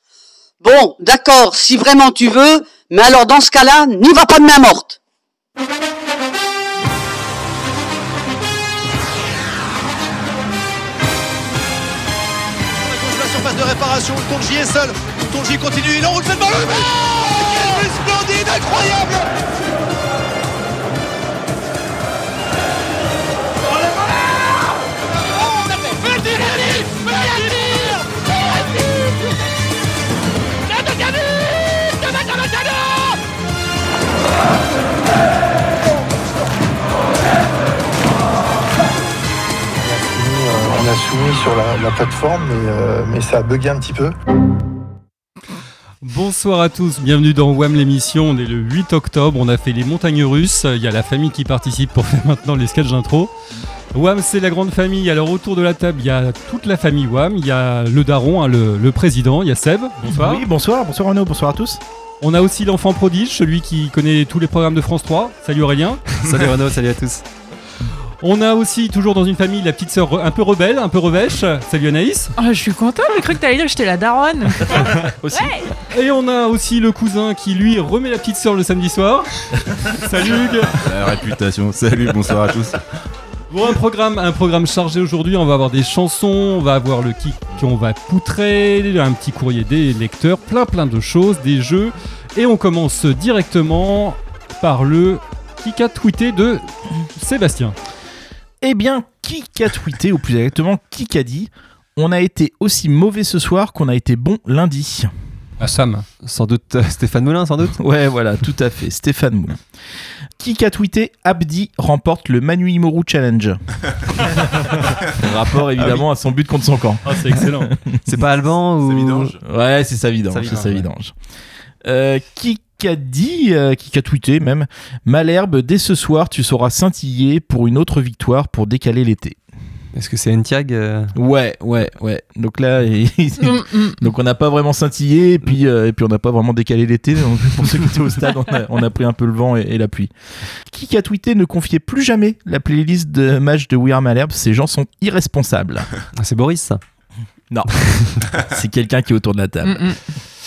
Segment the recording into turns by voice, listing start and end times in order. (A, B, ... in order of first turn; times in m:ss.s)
0:00.6-0:05.0 A
0:12.9-0:19.2 B
0:25.7-0:26.7 B
0:39.8-0:44.2 C
0:46.0-0:53.3 D
0:53.9-1:00.4 D
1:00.0-1:01.8 E
1:02.2-1:06.0 D
1:06.1-1:07.2 F
1:08.2-1:12.3 D
1:12.4-1:15.7 G
1:15.0-1:15.7 E
1:15.9-1:20.8 D
1:20.8-1:22.8 H
1:23.5-1:37.8 D
1:38.6-1:45.1 E
1:45.6-1:46.1 D
1:46.2-1:47.8 F
1:47.8-1:49.6 E
1:50.4-1:53.6 E
1:54.2-1:58.2 E
1:57.0-1:57.7 D
1:58.1-1:59.4 F
1:58.8-1:59.3 H
1:59.4-2:01.1 E
2:00.3-2:00.8 F
2:01.8-2:09.4 E
2:09.9-2:11.1 F
2:11.2-2:20.1 E
2:13.4-2:14.0 G
2:20.7-2:25.9 E
2:26.2-2:26.8 F
2:27.5-2:29.9 E
2:29.6-2:30.0 G